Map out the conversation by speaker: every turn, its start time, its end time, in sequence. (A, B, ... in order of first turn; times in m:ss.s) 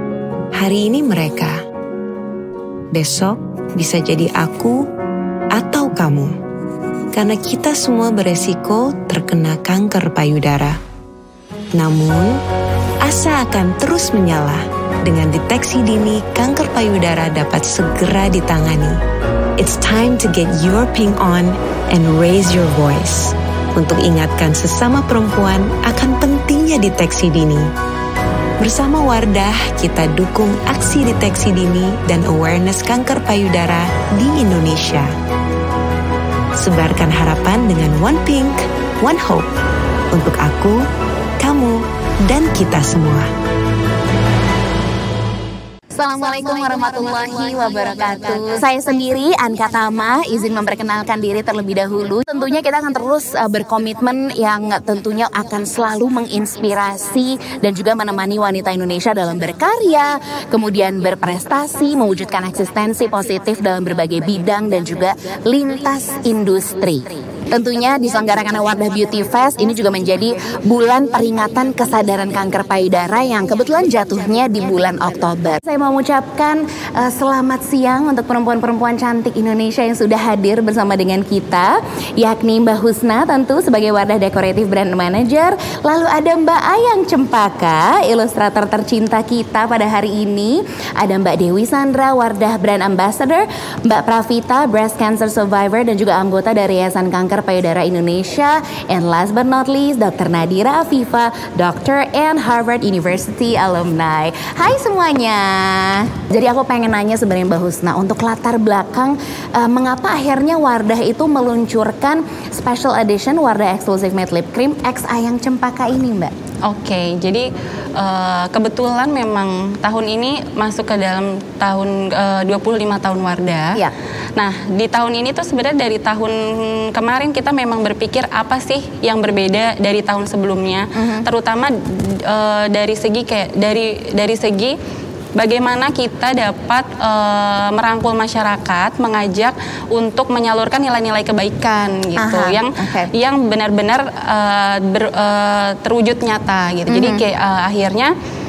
0:00.6-0:01.6 A
0:02.9-0:04.8 A
0:05.5-0:06.3 A
0:07.1-0:10.8 A
0:11.7-0:12.4 A
0:13.0-0:19.0 A
0:19.6-0:27.7 A
0:28.6-0:35.1 A
0:36.6-0:39.5 A
0:40.1-0:40.8 A
0:41.4-0:43.3 A
0:46.0-1:56.3 B
1:56.6-2:03.8 C
2:04.4-2:11.7 C
2:11.0-2:11.3 B
2:12.3-2:14.8 C
2:15.4-2:28.1 C
2:22.2-2:23.1 B
2:26.9-2:27.3 B